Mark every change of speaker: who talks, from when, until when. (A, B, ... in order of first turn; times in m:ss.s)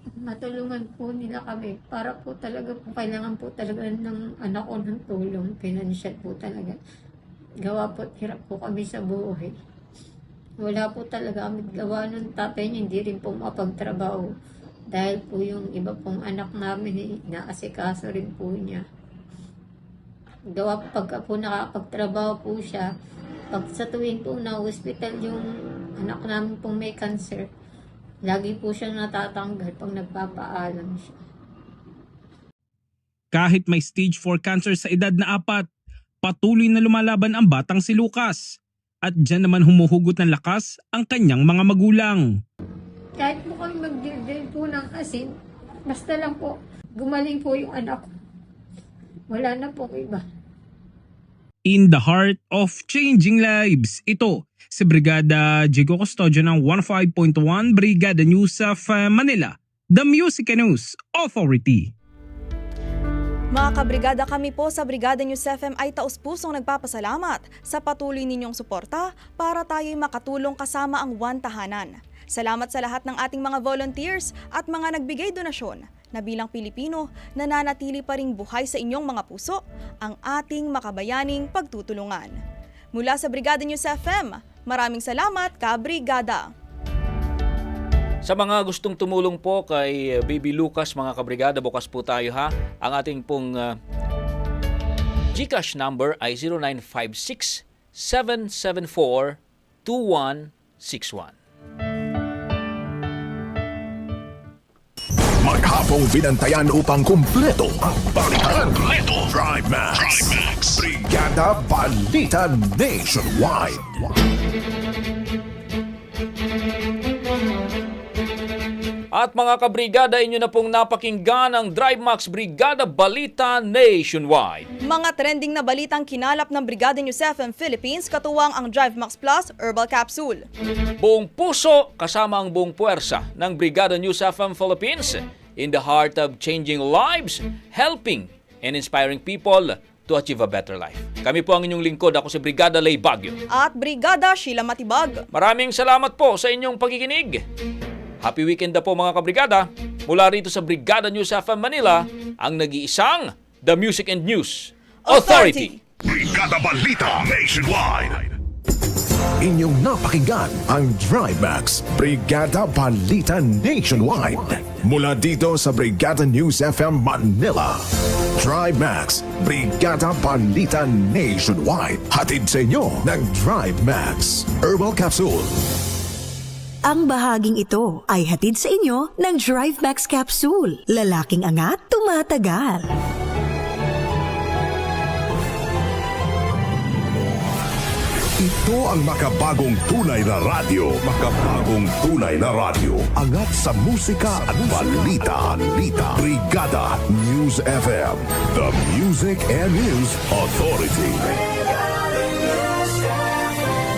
0:00.2-0:06.8 A
0:07.6-0:09.5 A
0:10.6-0:14.3 A
0:14.9-0:18.8 A
0:20.5-0:22.9 A
0:23.5-0:25.4 A
0:26.0-0:27.4 A
0:28.3-0:31.1 A
0:33.3-0:35.6 B
0:36.2-0:38.4 B
0:39.0-0:42.3 B
0:43.2-0:45.3 A
0:45.9-0:48.1 A
0:49.3-0:50.2 A
0:51.7-1:01.9 B
1:03.5-1:22.3 C
1:22.9-1:26.5 C
1:28.2-1:33.8 D
1:35.3-1:41.4 D
1:45.4-1:54.1 E
1:59.1-2:04.7 D
2:04.8-2:10.4 C
2:11.0-2:23.4 D
2:23.5-2:25.2 C
2:25.3-2:27.4 D
2:28.2-2:35.8 D
2:35.1-2:35.8 C
2:36.1-2:38.2 E
2:39.4-2:47.8 E
2:48.4-2:55.6 E
2:56.8-3:02.9 F
3:08.4-3:21.3 E